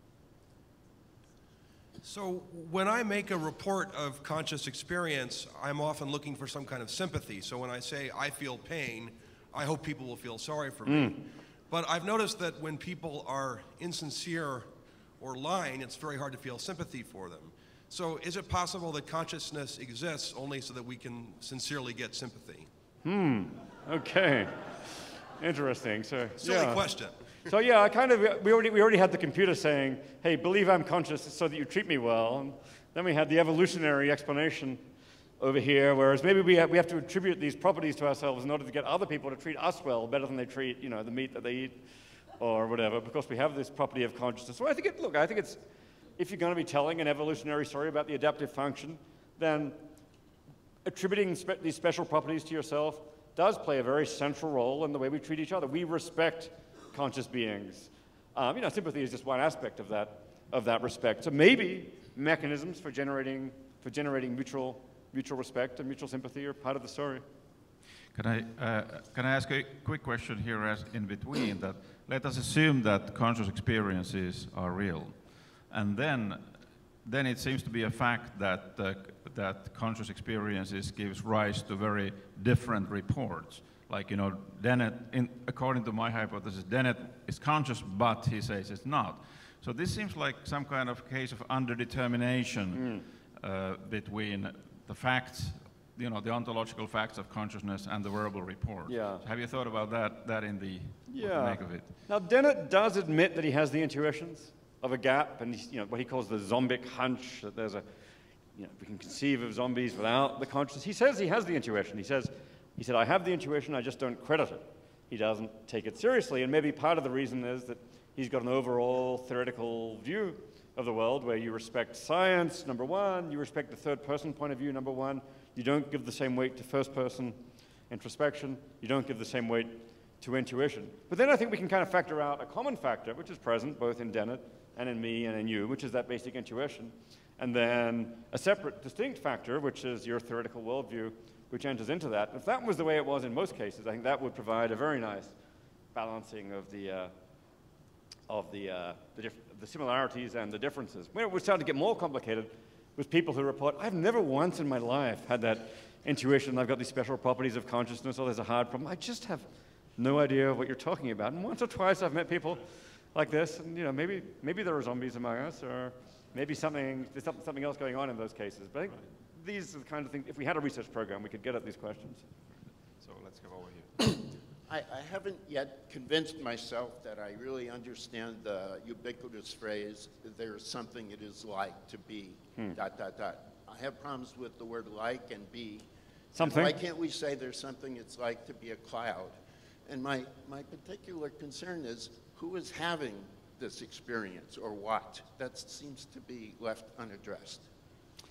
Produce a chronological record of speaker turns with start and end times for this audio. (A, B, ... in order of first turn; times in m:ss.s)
0:02.0-0:22.7 A
0:10.8-0:11.2 B
0:23.0-0:24.6 B
0:25.4-0:26.9 B
0:26.4-0:27.2 A
0:27.4-0:34.8 B
0:35.4-0:41.8 B
0:42.4-0:45.6 B
0:46.2-0:49.8 B
0:50.8-1:07.2 B
1:08.1-1:15.2 C
1:15.7-1:16.5 C
1:17.0-1:41.9 C
1:32.7-1:33.0 B
1:38.9-1:39.2 B
1:41.1-1:47.8 B
1:48.6-2:07.4 B
2:07.9-2:25.3 B
2:25.9-2:27.1 B
2:28.3-2:39.4 B
2:40.0-2:52.2 B
2:53.0-2:53.9 C
2:54.7-3:17.7 D
3:06.3-3:06.8 B